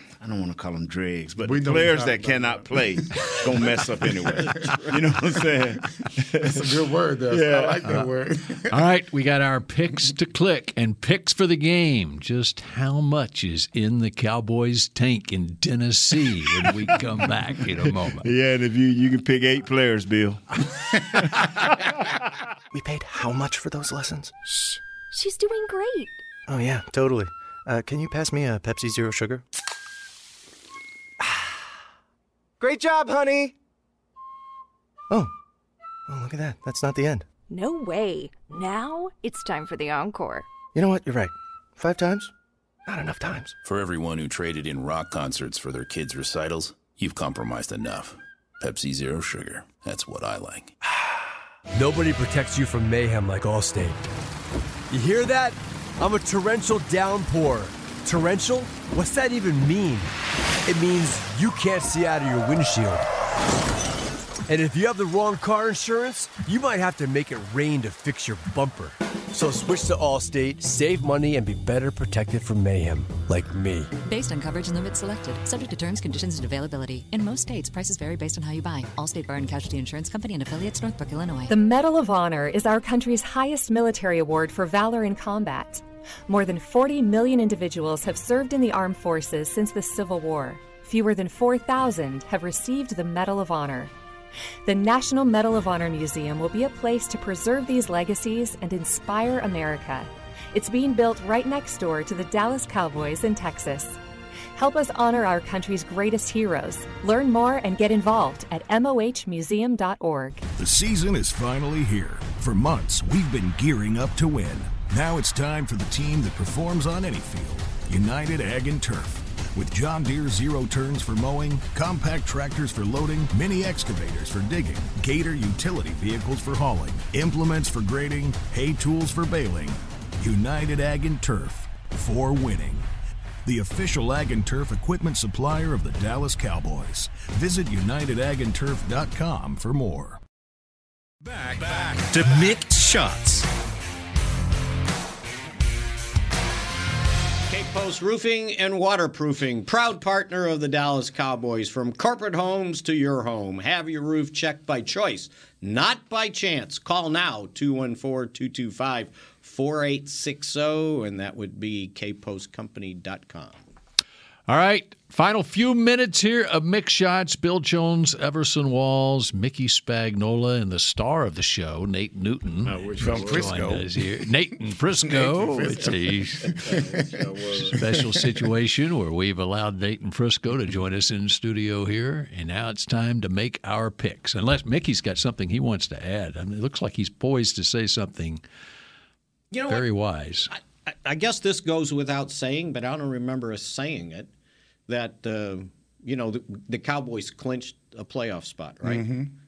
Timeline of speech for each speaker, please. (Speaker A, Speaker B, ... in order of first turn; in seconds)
Speaker A: 0.2-6.7, 7.3-7.9, 16.6-16.9, 18.2-20.4, 21.4-22.0, 172.6-173.8, 176.4-177.9
Speaker B: 1.4-4.9, 6.4-8.8, 173.0-174.2, 175.0-178.4, 198.8-199.3
Speaker C: 4.5-4.9, 147.5-163.6, 189.5-189.9, 190.5-194.3, 194.9-199.1
Speaker D: 8.7-18.2, 164.5-176.5, 177.7-188.4, 189.7-190.5
Speaker E: 22.7-24.3, 26.5-29.4, 32.6-33.5, 36.1-37.2, 40.7-42.3, 42.9-43.5
Speaker F: 25.1-26.2, 37.5-40.5
Speaker G: 43.6-50.7
Speaker H: 51.7-54.1, 54.9-60.1, 60.6-63.0, 64.5-73.9
Speaker I: 74.0-81.5
Speaker J: 81.5-93.9, 94.6-104.0, 104.5-110.4
Speaker K: 110.6-132.9, 133.4-140.2
Speaker L: 141.3-143.4